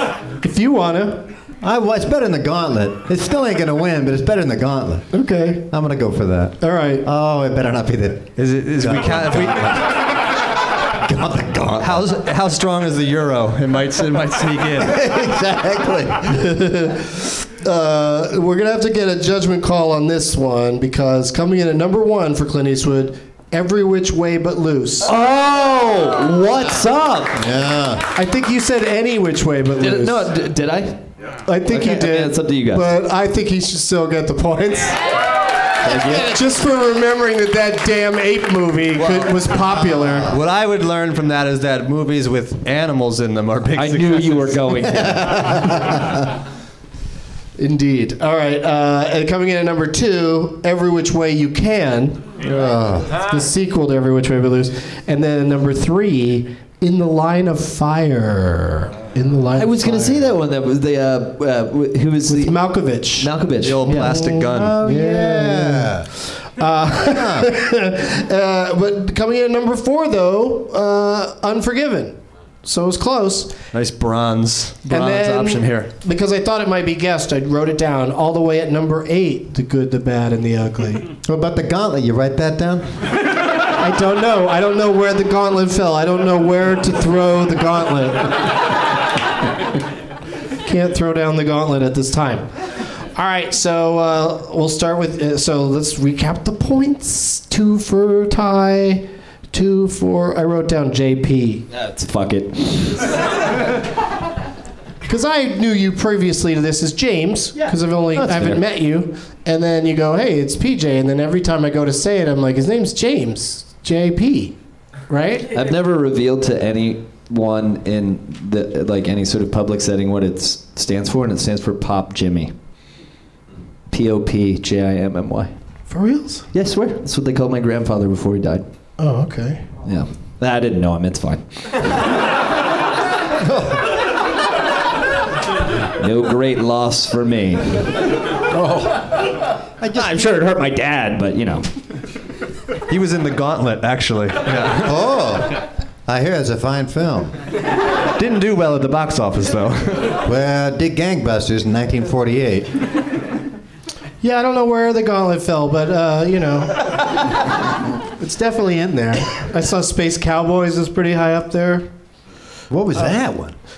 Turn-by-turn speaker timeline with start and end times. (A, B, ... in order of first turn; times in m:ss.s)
0:00.4-0:01.3 A
0:01.6-0:05.2 B
0:05.1-0:05.6 A
0:05.7-0:10.2 B
0:06.6-0:07.0 A
0:08.4-0:09.9 C
0:10.9-0:12.1 B
0:11.8-0:15.0 C
0:14.8-0:16.5 B
0:16.3-0:25.1 A
0:25.0-0:27.4 D
0:27.3-0:28.0 B
0:28.1-0:30.3 A
0:29.8-0:31.0 D
0:31.4-0:35.0 A
0:31.6-0:32.9 D
0:35.8-0:36.3 D
0:36.2-0:40.3 A
0:39.0-0:39.3 D
0:40.3-0:44.7 C
0:43.7-0:45.8 D
0:44.9-0:46.3 B
0:47.6-0:52.3 A
0:52.4-0:53.2 B
0:53.1-1:00.3 A
0:59.5-1:02.6 D
1:02.3-1:13.6 A
1:03.2-1:04.0 D
1:03.6-1:04.8 C
1:04.4-1:06.1 B
1:07.0-1:07.5 B
1:13.7-1:15.9 C
1:14.9-1:21.1 A
1:21.2-1:22.9 B
1:23.8-1:28.6 A
1:30.6-1:41.6 A
1:41.7-1:43.1 D
1:45.0-1:54.5 A
1:48.1-1:48.6 D
1:55.1-1:55.5 A
1:55.5-2:02.5 D
2:03.9-2:05.5 D
2:05.9-2:06.5 A
2:06.5-2:08.6 D
2:09.0-2:09.6 A
2:09.8-2:11.9 D
2:13.4-2:13.9 B
2:16.0-2:17.9 D
2:18.5-2:19.0 B
2:19.8-2:20.2 B
2:19.9-2:21.7 D
2:22.9-2:25.1 C
2:24.8-2:27.3 B
2:28.2-2:30.2 C
2:30.2-2:32.7 B
2:34.2-2:37.1 A
2:38.2-2:41.9 A
2:42.7-2:43.5 B